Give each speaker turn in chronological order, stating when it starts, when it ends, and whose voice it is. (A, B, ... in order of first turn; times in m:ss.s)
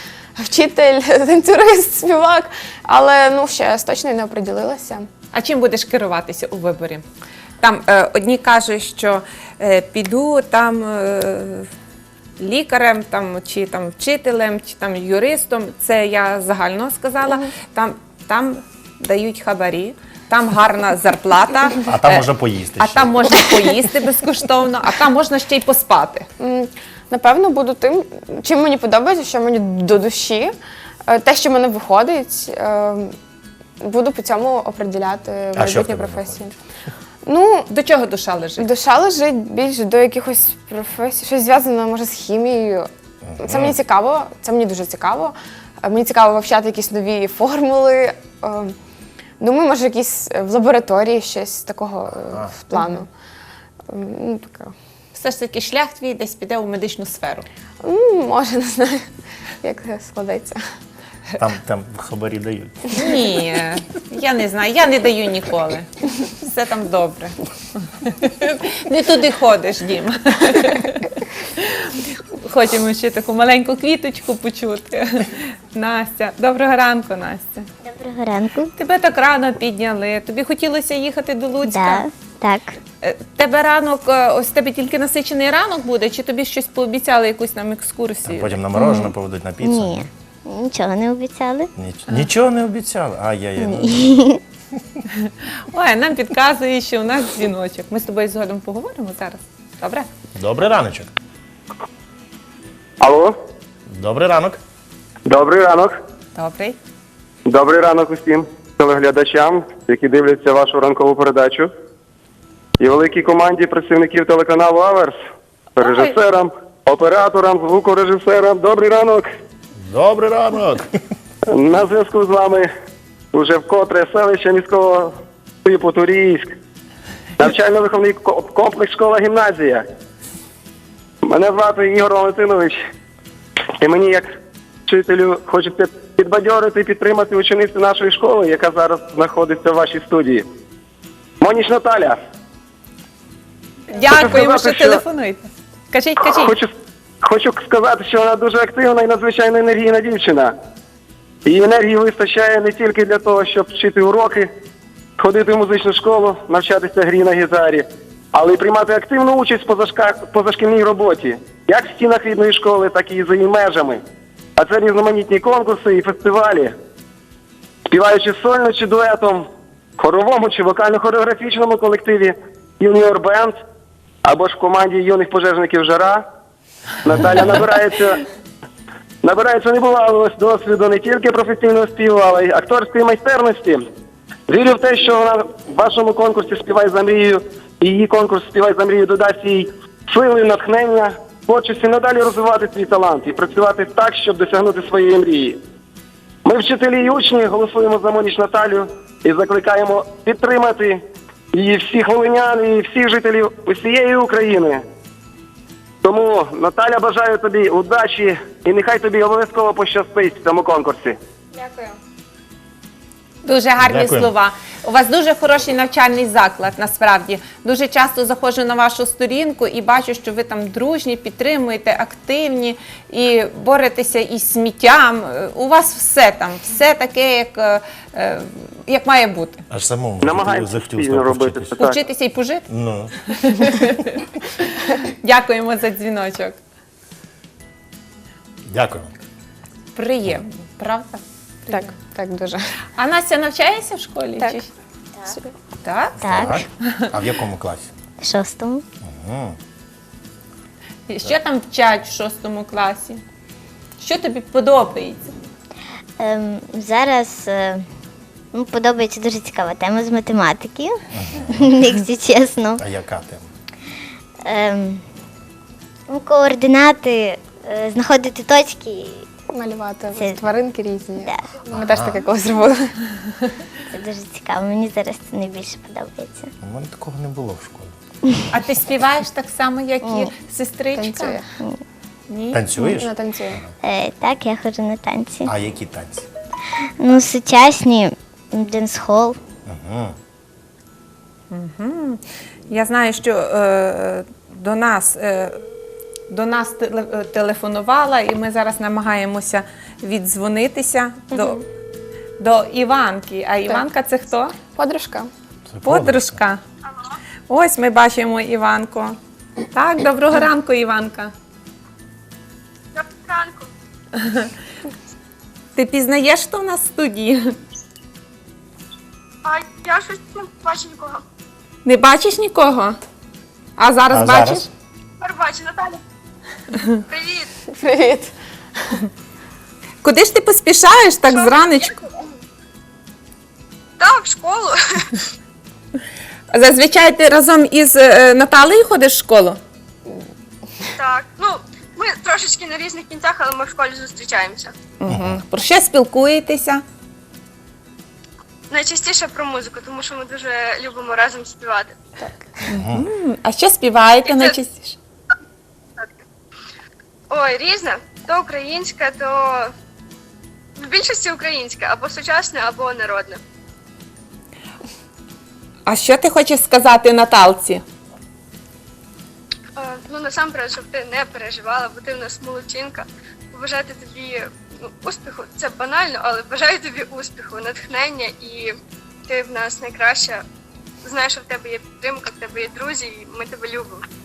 0:00.4-0:05.1 A
0:05.3-0:07.0 B
0:07.6-0:11.7 B
0:12.4-0:26.3 B
0:21.8-0:23.4 C
0:26.4-0:30.5 A
0:31.1-0:33.1 A
0:33.8-0:36.5 A
0:35.6-0:36.5 C
0:37.2-0:37.7 A
0:37.7-0:38.7 B
0:38.6-0:42.9 A
0:43.2-0:43.7 C
0:43.4-0:48.7 A
0:49.4-0:53.1 A
0:53.9-0:54.7 A
0:55.1-0:57.5 B
0:57.8-0:59.0 A
0:59.6-1:00.6 A
1:01.4-1:03.0 C
1:02.9-1:17.7 B
1:17.8-1:18.7 D
1:18.8-1:22.0 B
1:21.6-1:22.8 D
1:23.0-1:28.6 B
1:28.2-1:30.1 C
1:28.7-1:31.7 D
1:31.8-1:34.2 C
1:33.6-1:34.4 D
1:35.2-1:40.1 B
1:40.3-1:41.1 C
1:43.0-1:43.4 E
1:43.9-1:44.6 C
1:45.3-1:45.9 E
1:46.3-1:46.8 B
1:47.5-1:51.7 E
1:52.8-1:55.2 E
1:55.8-1:59.3 E
1:55.8-1:56.1 B
1:59.8-2:00.9 C
2:01.5-2:02.7 E
2:03.3-2:06.5 E
2:07.4-2:09.8 E
2:11.2-2:12.8 E
2:13.8-2:14.3 E
2:14.9-2:20.4 E
2:21.4-2:22.2 E
2:23.9-2:26.6 B
2:24.1-2:25.0 E
2:26.4-2:26.7 E
2:27.2-2:30.5 E
2:31.4-2:34.5 E
2:35.2-2:44.0 E
2:44.6-2:46.7 E
2:47.9-2:53.6 E
2:54.2-2:56.2 E
2:57.0-2:58.2 E
2:59.2-3:03.8 E
3:04.5-3:15.6 E
3:16.4-3:21.0 E
3:21.5-3:24.8 E
3:26.0-3:31.2 E
3:31.6-3:31.9 A
3:33.4-3:49.6 B
3:33.8-3:34.3 C
3:49.7-3:51.8 C
3:50.2-3:52.0 E
3:51.8-3:52.6 B
3:52.7-3:53.2 C
3:53.3-3:56.6 B
3:58.7-3:59.2 C
3:59.9-4:01.9 B
4:01.7-4:02.6 A
4:03.0-4:04.7 B
4:05.8-4:06.2 B
4:06.2-4:06.6 D
4:06.3-4:08.0 C
4:06.8-4:07.1 B
4:08.2-4:08.8 D
4:09.0-4:09.6 C
4:11.1-4:13.2 B
4:14.0-4:15.3 B
4:16.2-4:17.8 D
4:18.5-4:21.0 D
4:21.1-4:21.7 C
4:21.5-4:22.8 D
4:22.8-4:23.5 C
4:24.4-4:25.0 D
4:26.1-4:29.2 D
4:29.5-4:32.9 A
4:30.1-4:30.4 D
4:31.2-4:31.6 D
4:31.7-4:32.2 C
4:33.9-4:36.5 D
4:36.6-4:38.0 C
4:38.5-4:41.4 B
4:40.0-4:40.3 D
4:40.9-4:41.4 A
4:42.3-4:42.6 B
4:42.5-4:43.7 C
4:42.8-4:43.6 A
4:43.8-4:45.5 D
4:45.4-4:46.3 C
4:47.0-4:49.4 D
4:49.6-4:50.2 C
4:51.5-4:55.6 B
4:56.3-5:01.6 B
5:01.3-5:01.6 A
5:02.4-5:04.5 B
5:04.7-5:05.3 A
5:05.7-5:06.4 C
5:05.8-5:06.6 B
5:07.5-5:09.2 B
5:09.7-5:11.3 B
5:12.9-5:13.7 F
5:15.8-5:17.5 B
5:19.4-5:21.2 F
5:21.8-5:23.0 B
5:23.8-5:24.7 B
5:24.1-5:24.6 C
5:25.2-5:26.0 F
5:27.0-5:27.5 F
5:27.7-5:28.3 A
5:30.0-5:32.0 B
5:31.3-5:32.0 F
5:34.0-5:34.8 F
5:36.5-5:39.6 B
5:41.0-5:44.7 F
5:45.0-5:46.8 B
5:45.1-5:45.4 C
5:48.7-5:51.9 F
5:52.7-5:55.0 B
5:52.7-5:53.1 C
5:54.2-5:54.6 F
5:57.3-5:59.7 F
6:00.8-6:03.4 F
6:05.9-6:07.8 B
6:09.8-6:14.5 F
6:15.0-6:18.7 F
6:19.3-6:20.4 F
6:21.0-6:24.0 F